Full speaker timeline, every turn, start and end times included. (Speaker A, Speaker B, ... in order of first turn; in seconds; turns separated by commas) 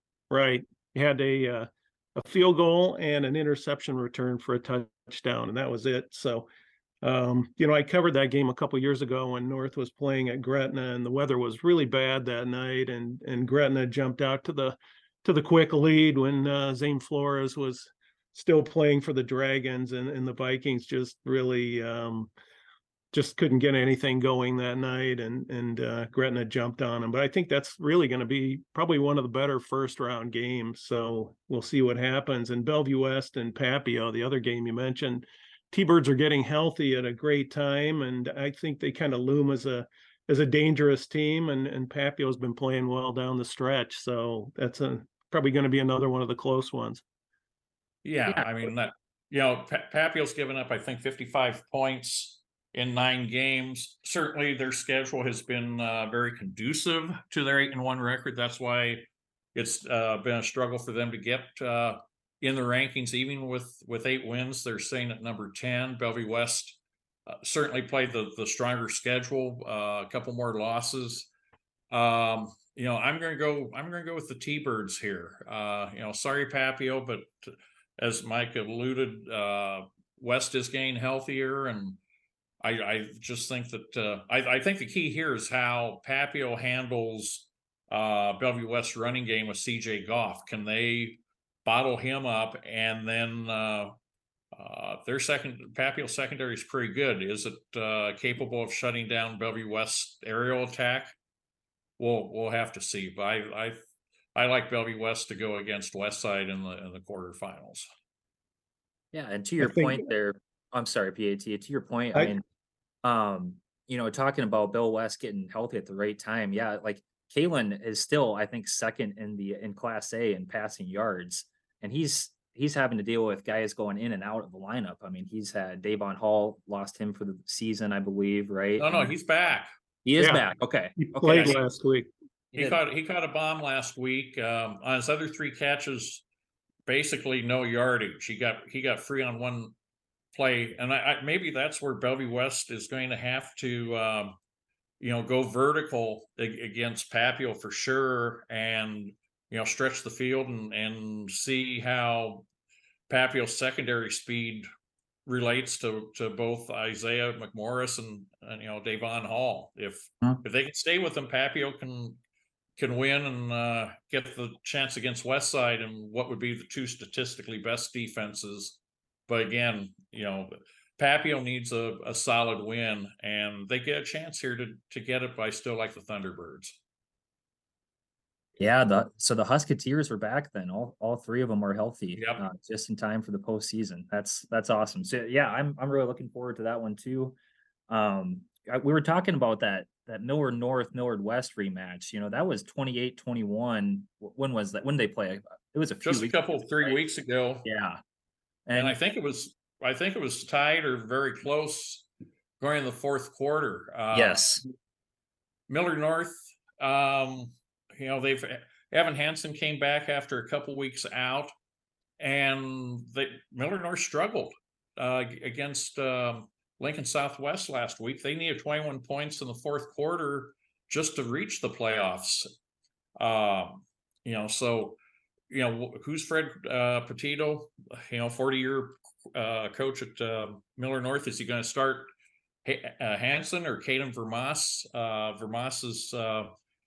Speaker A: 0.3-6.5, Speaker A: 7.0-22.3, Speaker A: 23.1-47.0, Speaker B: 48.0-71.3, Speaker B: 71.9-82.0, Speaker B: 82.6-93.9, Speaker B: 94.5-101.1, Speaker B: 102.0-103.8, Speaker B: 104.3-107.9, Speaker C: 109.1-112.4, Speaker A: 109.6-110.0, Speaker C: 113.0-129.1, Speaker B: 128.8-129.7, Speaker C: 130.0-131.6, Speaker A: 130.2-130.4, Speaker A: 130.9-132.1, Speaker B: 131.3-131.6, Speaker C: 132.5-132.8, Speaker B: 132.6-136.2, Speaker B: 136.8-139.7, Speaker B: 140.3-144.4, Speaker B: 145.0-152.5, Speaker B: 153.1-154.7, Speaker B: 155.2-162.2, Speaker B: 162.8-176.8, Speaker C: 178.6-187.4, Speaker B: 182.2-182.4, Speaker C: 187.9-197.0, Speaker B: 196.0-197.6, Speaker C: 197.6-198.0, Speaker C: 198.7-199.0, Speaker B: 198.8-202.1, Speaker B: 202.6-204.5, Speaker C: 204.1-204.6, Speaker B: 205.7-211.5, Speaker B: 212.2-222.5, Speaker B: 223.2-225.0, Speaker B: 225.5-232.1, Speaker B: 232.6-236.5